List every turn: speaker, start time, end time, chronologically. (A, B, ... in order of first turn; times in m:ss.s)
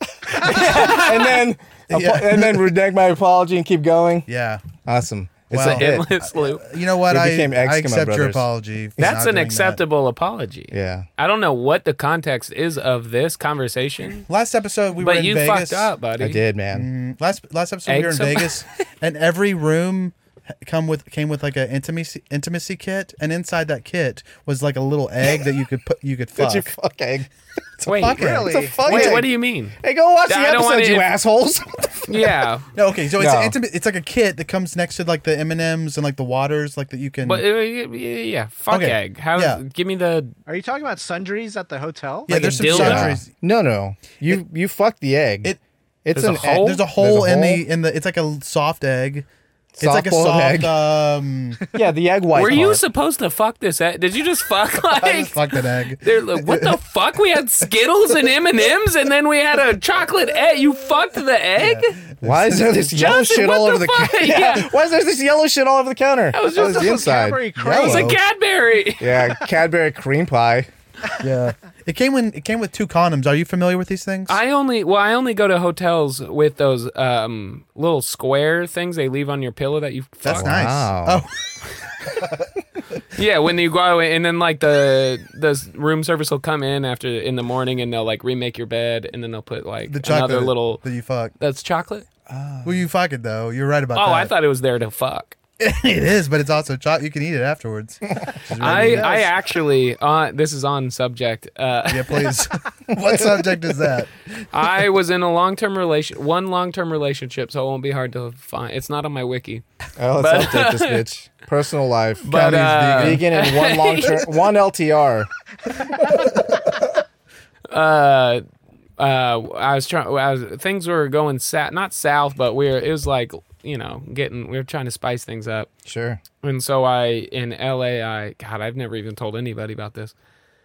0:00.2-0:04.3 A
0:00.4-0:00.9 B
0:00.5-0:01.1 C
0:01.9-0:02.6 B
0:04.3-0:04.7 B
0:04.8-0:06.1 A
0:05.5-0:09.8 B
0:05.5-0:06.6 C
0:07.1-0:08.5 A
0:09.0-0:14.3 C
0:10.7-0:11.1 A
0:14.3-0:15.9 B
0:15.0-0:16.4 C
0:16.2-0:16.9 A
0:16.7-0:26.7 B
0:17.9-0:18.6 C
0:26.4-0:27.3 A
0:27.8-0:28.6 B
0:27.8-0:29.8 C
0:28.2-0:29.2 D
0:28.3-0:32.3 A
0:30.3-0:31.1 C
0:32.1-0:32.7 C
0:32.8-0:37.4 B
0:33.2-0:33.6 A
0:37.3-0:40.3 C
0:38.7-0:39.6 B
0:40.5-0:42.3 D
0:42.3-0:43.3 B
0:42.3-0:43.2 C
0:42.6-0:47.6 A
0:46.1-0:46.8 C
0:46.4-0:49.3 B
0:49.8-0:50.8 A
0:49.8-0:51.6 B
0:51.7-0:52.8 A
0:52.3-0:55.4 C
0:54.9-0:56.8 B
0:56.0-1:02.0 C
1:01.6-1:03.0 B
1:02.2-1:07.4 A
1:02.9-1:04.7 C
1:06.3-1:09.4 C
1:06.5-1:08.2 D
1:07.6-1:08.2 B
1:09.0-1:10.7 A
1:11.2-1:14.4 B
1:14.3-1:20.5 C
1:20.2-1:21.3 B
1:20.3-1:21.2 A
1:23.1-1:30.8 C
1:29.9-1:31.3 B
1:31.4-1:32.1 C
1:32.3-1:32.8 A
1:32.6-1:34.3 B
1:34.0-1:35.4 C
1:35.6-1:39.3 B
1:38.6-1:42.4 C
1:38.7-1:39.0 A
1:41.9-1:44.1 B
1:44.5-1:49.6 C
1:50.0-1:55.3 A
1:50.2-1:51.0 C
1:52.2-1:54.3 C
1:52.3-1:53.2 B
1:57.7-1:58.4 C
1:59.0-2:05.7 C
2:05.8-2:06.2 A
2:06.4-2:10.1 C